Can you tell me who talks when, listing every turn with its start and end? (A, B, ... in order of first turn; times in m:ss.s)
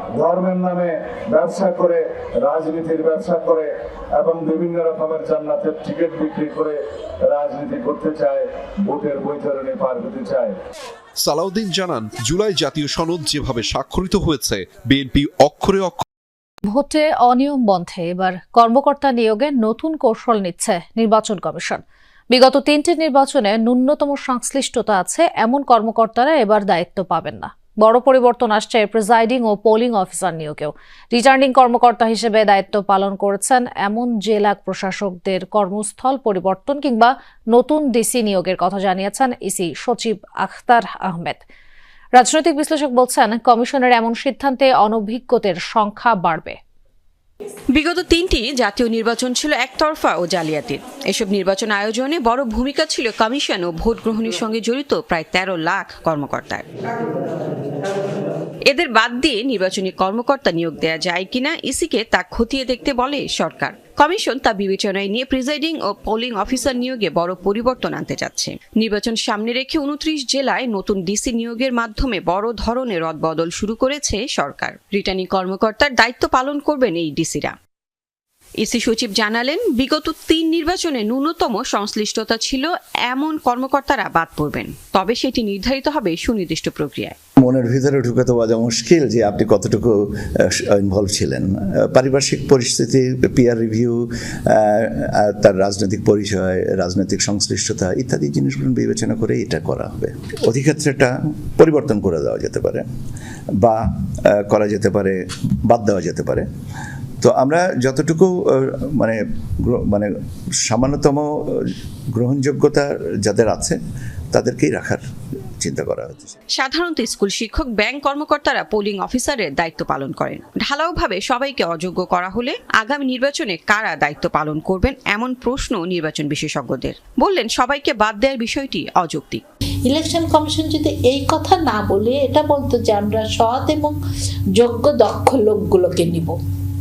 0:00.2-0:10.5 A
0:11.2-0:16.0 B
0:16.6-0:21.8 C
0:22.3-0:41.4 C
0:42.2-0:46.6 C
0:47.7-0:56.6 D
0:58.7-1:17.5 D
1:18.6-1:27.1 D
1:27.4-1:42.8 E
1:43.6-1:46.5 E
1:47.2-1:50.1 E
1:50.7-1:51.3 E
1:52.1-1:53.8 E
1:54.3-1:55.0 E
1:55.6-1:56.3 E
1:56.6-2:09.4 D
2:09.9-2:14.0 F
2:14.6-2:16.4 F